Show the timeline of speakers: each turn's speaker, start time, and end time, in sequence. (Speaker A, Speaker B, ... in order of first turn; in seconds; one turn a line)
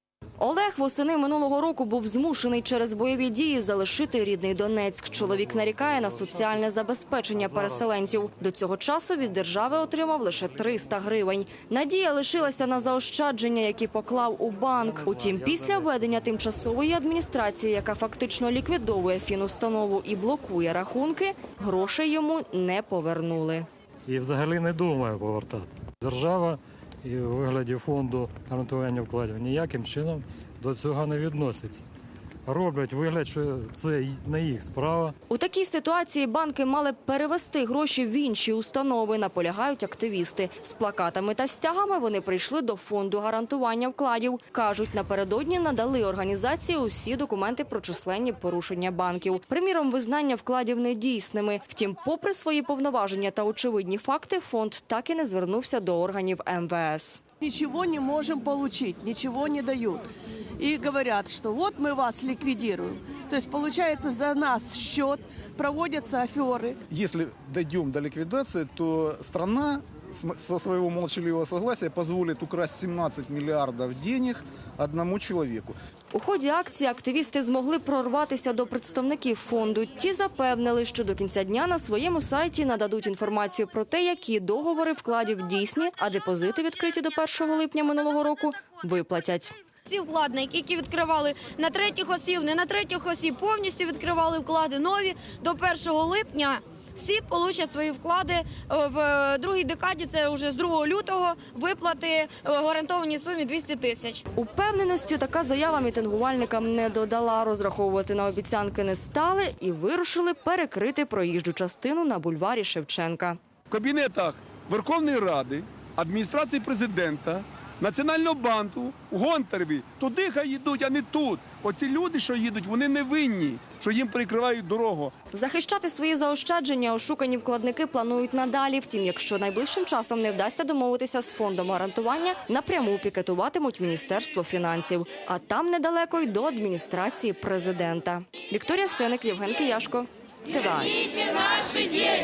Speaker A: 0.4-23.6
Speaker B: 24.1-31.8
Speaker B: 32.5-35.1
Speaker A: 35.3-57.2
Speaker C: 57.4-66.8
Speaker D: 66.9-75.7
Speaker A: 76.1-89.5
Speaker E: 89.8-104.2
Speaker A: 104.3-113.4
Speaker F: 113.7-125.1
Speaker A: 125.3-142.0